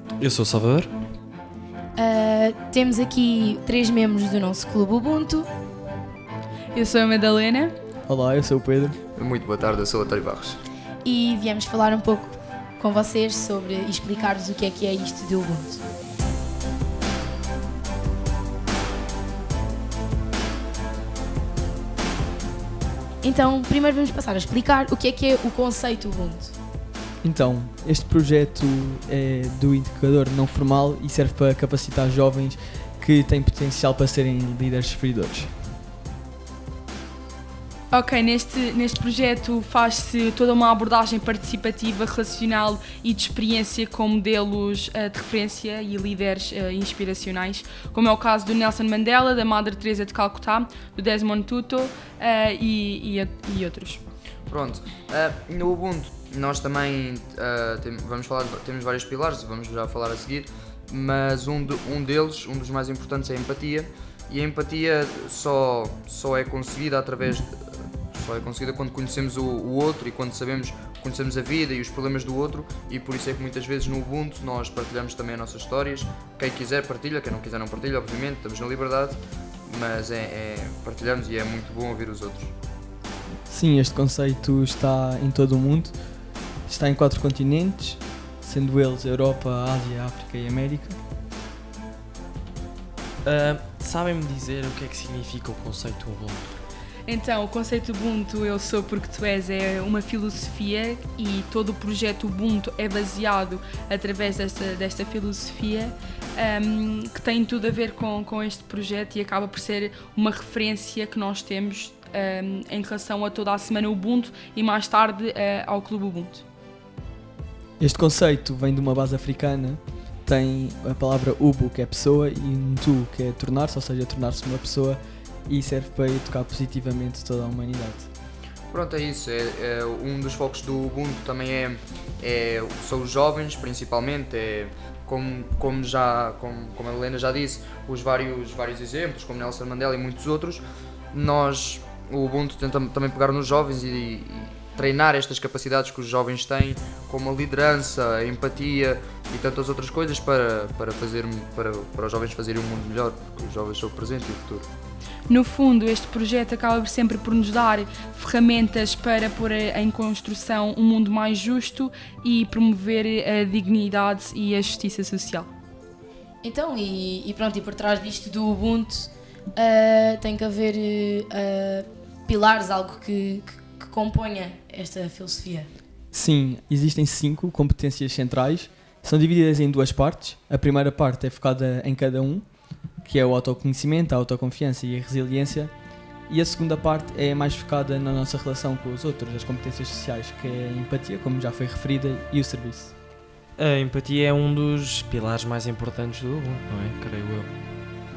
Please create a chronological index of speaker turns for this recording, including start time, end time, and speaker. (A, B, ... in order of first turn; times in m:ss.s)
0:00.2-0:00.9 A
0:02.0-0:05.5 B
0:06.7-0:07.7 C
0:08.1-0:09.0 D
0:09.2-0:10.6 E
0:11.0-0:15.8 B
0:23.2-0:26.5 B
0:27.2-0:35.7 D
0:37.9-0:54.0 C
0:54.5-1:22.5 E
1:23.5-1:26.0 D
1:26.7-1:31.0 D
1:33.2-1:36.4 A
1:37.0-1:56.4 C
1:57.8-2:08.1 D
2:08.7-2:34.7 E
2:35.3-2:45.5 C
2:46.4-2:55.7 B
2:56.1-3:05.7 D
3:06.3-3:12.9 D
3:13.6-3:17.5 A